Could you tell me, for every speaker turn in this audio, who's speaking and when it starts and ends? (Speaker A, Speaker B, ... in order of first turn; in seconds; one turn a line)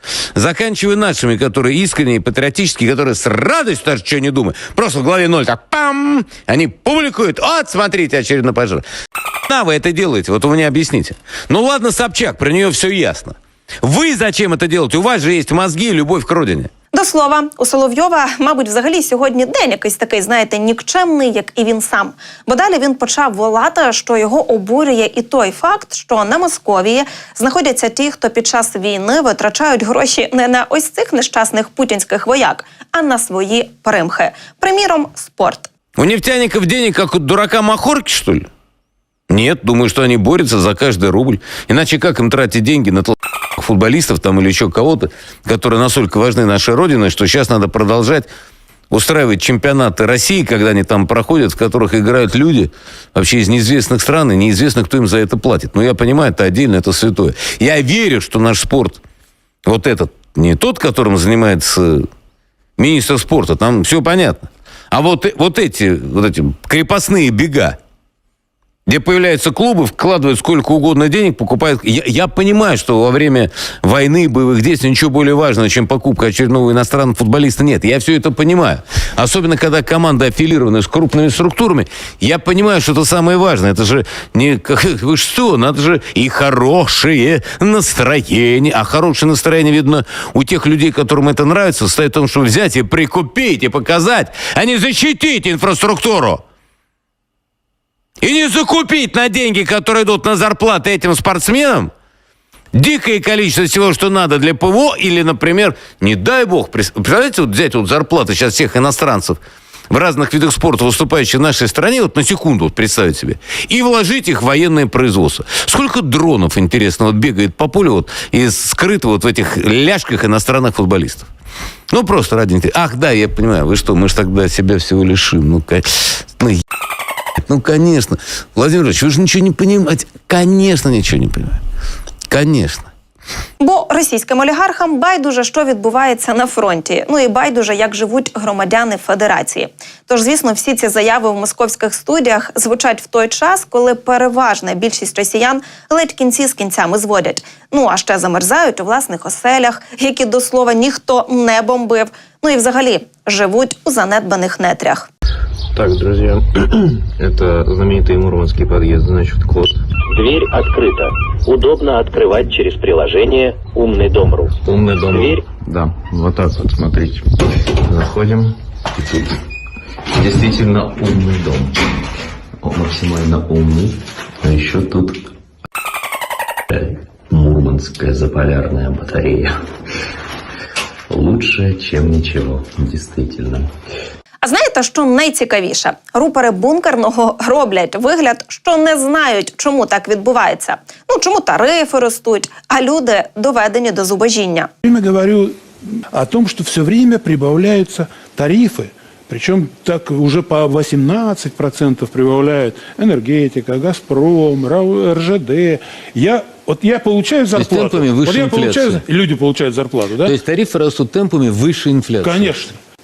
Speaker A: 0.3-8.8
Speaker A: 9.5-16.7
Speaker B: 16.9-35.7
Speaker A: 36.0-38.5
Speaker A: 39.3-48.3
Speaker A: 48.9-59.0
Speaker A: 59.7-62.1
Speaker A: 62.8-67.8
Speaker A: 68.9-96.4
Speaker A: 98.2-101.9
Speaker A: 102.7-109.4
Speaker A: 109.9-121.3
Speaker A: 121.9-126.6
Speaker A: 127.5-131.6
Speaker A: 132.3-132.9
Speaker B: 133.6-155.1
Speaker C: 155.8-156.4
Speaker C: 157.2-159.7
Speaker D: 160.1-164.5
Speaker C: 164.6-167.2
Speaker C: 167.8-168.6
Speaker C: 170.2-171.8
Speaker C: 172.6-175.2
Speaker C: 176.7-179.6
Speaker C: 181.1-183.7
Speaker B: 184.4-194.7
Speaker E: 194.8-195.6
Speaker E: 196.1-210.4
Speaker A: 207.5-209.1
Speaker A: 210.2-212.5
Speaker E: 212.2-212.8